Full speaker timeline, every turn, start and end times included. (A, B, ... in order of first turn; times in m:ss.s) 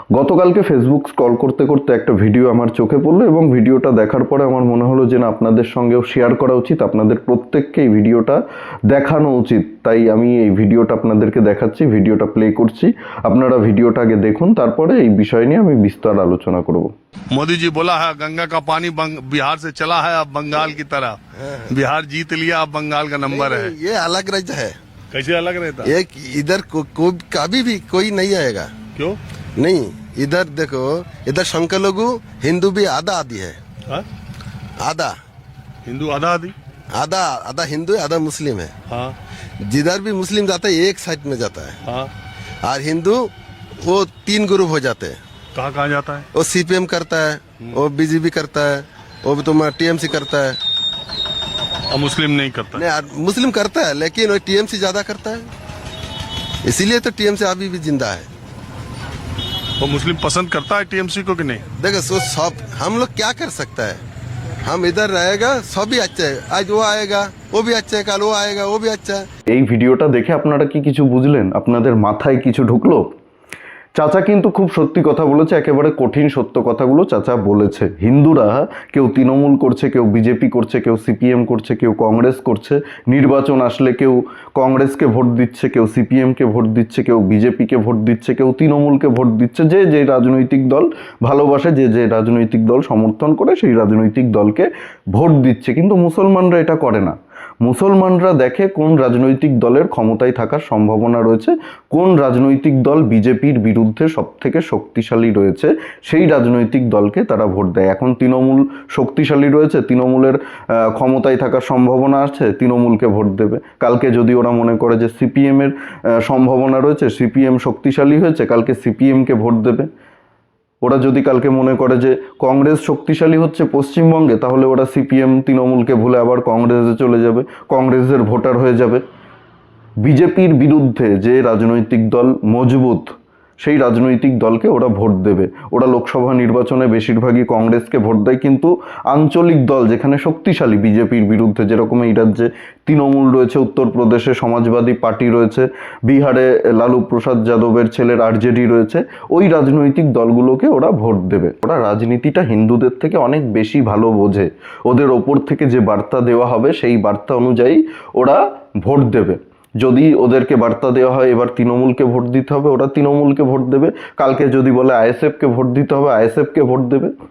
0:00.1-0:16.9 A
0:17.3-0:23.7 B
0:23.3-0:24.8 C
0:25.1-0:25.9 B
0:25.8-0:28.7 C
0:29.6-0:33.6 C
0:34.8-0:35.2 C
0:35.8-0:36.5 B
0:36.9-0:38.7 C
0:38.9-0:39.2 B
0:39.6-0:41.8 C
0:41.8-0:42.1 B
0:42.6-0:45.2 C
0:45.5-0:46.3 B
0:46.3-0:50.6 C
0:51.9-0:52.8 B
0:52.7-0:55.5 C
0:56.6-0:58.3 C
0:59.8-1:01.6 B
1:01.8-1:04.0 C
1:04.6-1:09.2 C
1:09.5-1:13.0 A
1:14.0-1:59.9 A
2:00.8-2:09.0 A
2:10.0-2:47.1 A